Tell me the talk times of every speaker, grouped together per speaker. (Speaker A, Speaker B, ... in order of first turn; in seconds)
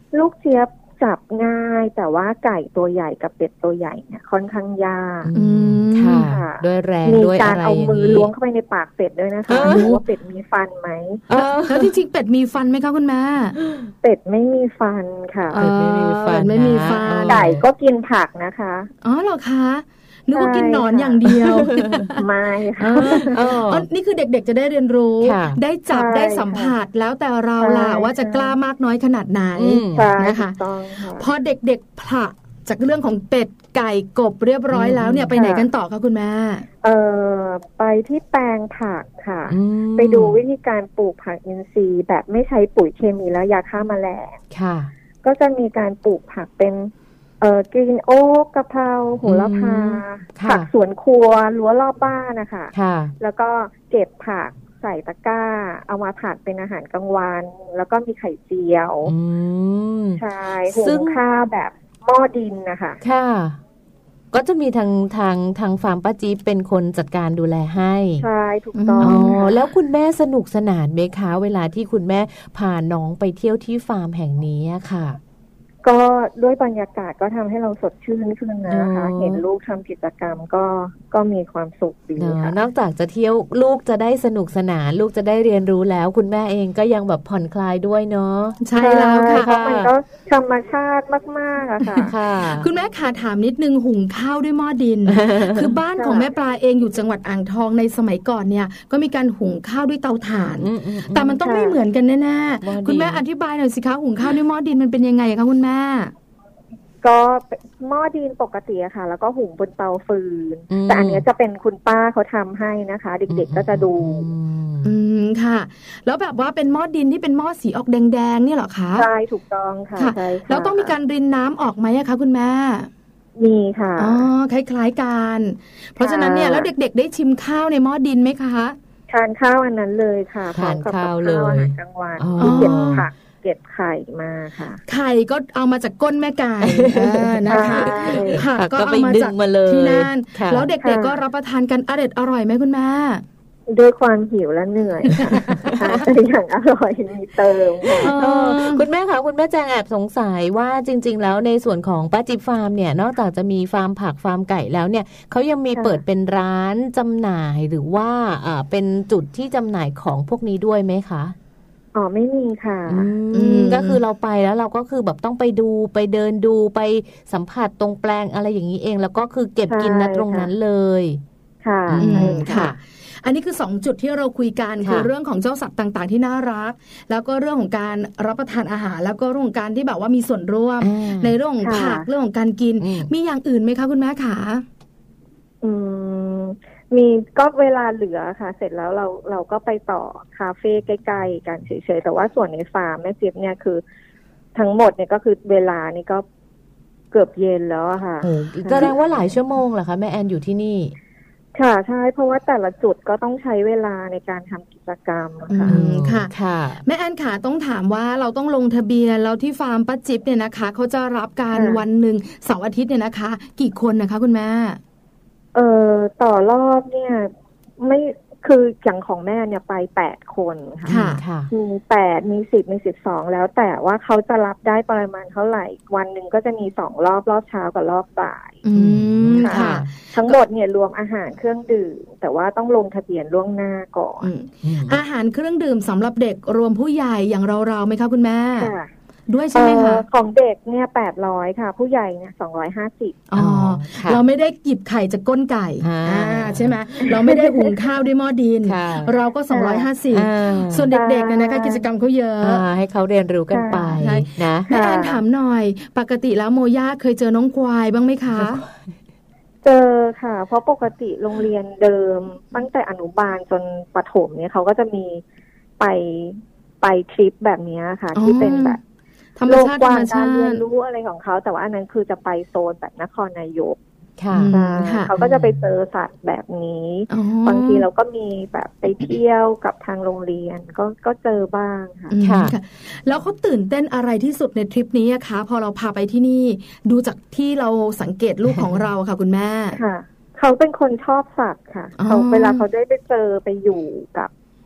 Speaker A: 0.1-5.3, 6.2-11.2, 14.0-15.6, 17.2-18.9, 20.3-21.3, 22.2-23.4, 25.9-26.7, 27.6-28.5, 29.9-31.3, 35.4-35.7, 36.8-44.4, 45.2-59.1, 60.2-63.0, 68.2-69.6, 75.8-82.6, 88.8-92.1, 96.0-96.3, 101.4-101.8, 107.0-114.2, 119.0-120.9, 123.4-124.3, 126.0-126.7, 129.1-134.8, 137.5-138.4, 140.8-141.2, 143.7-148.1, 155.7-156.0, 161.9-163.1, 169.7-170.5, 171.6-172.7, 181.6-182.1, 185.6-193.8, 194.6-196.2, 197.1-199.1, 201.6-205.8, 211.5-211.8, 215.6-228.6, 229.4-234.3, 238.6-238.9, 239.5-243.3, 247.1-247.7, 249.5-249.9, 250.9-251.8, 253.5-254.1, 254.7-255.2, 259.6-265.2, 265.8-268.8, 269.5-273.8, 274.5-282.1, 289.7-294.3
Speaker B: 5.2-8.3, 9.5-9.9, 11.3-11.9, 15.5-17.6, 21.4-22.1, 23.0-23.9, 25.2-25.6, 29.6-30.1, 34.7-35.4, 39.5-40.4, 44.5-44.9, 49.2-50.7, 52.7-53.1, 59.1-61.2, 63.0-63.6, 64.3-68.2, 69.0-75.2, 78.7-79.4, 82.2-88.7, 89.3-89.9, 92.1-92.7, 95.1-95.7, 100.6-101.4, 102.6-103.2, 110.7-111.2, 113.3-114.9, 130.6-133.1, 136.6-140.7, 145.7-146.1, 148.0-161.4, 162.9-171.2, 171.9-172.8, 174.8-175.1, 180.8-181.4, 182.8-183.1, 198.2-200.9, 205.7-206.8, 220.8-221.5, 228.8-229.9, 234.6-235.0, 243.4-244.2, 245.8-246.7, 248.7-249.1, 250.1-250.9, 252.4-254.7, 258.4-258.7, 274.2-274.6, 275.2-275.6, 282.2-282.5
Speaker C: 5.3-6.3, 9.6-10.0, 11.3-13.6, 15.5-17.5, 19.0-22.2, 22.8-30.6, 31.2-36.7, 68.8-69.4, 88.6-89.5, 91.8-106.1, 114.8-119.1, 120.0-122.9, 124.0-128.8, 132.4-133.1, 134.9-143.2, 148.0-148.8, 163.3-164.0, 172.0-184.7, 205.5-206.3, 206.8-214.8, 220.9-221.2, 228.6-230.4, 234.2-238.7, 239.3-240.1, 243.3-252.7, 254.0-258.6, 268.1-268.8, 269.4-270.6, 274.3-275.1, 277.1-277.9, 282.1-289.8, 292.0-292.7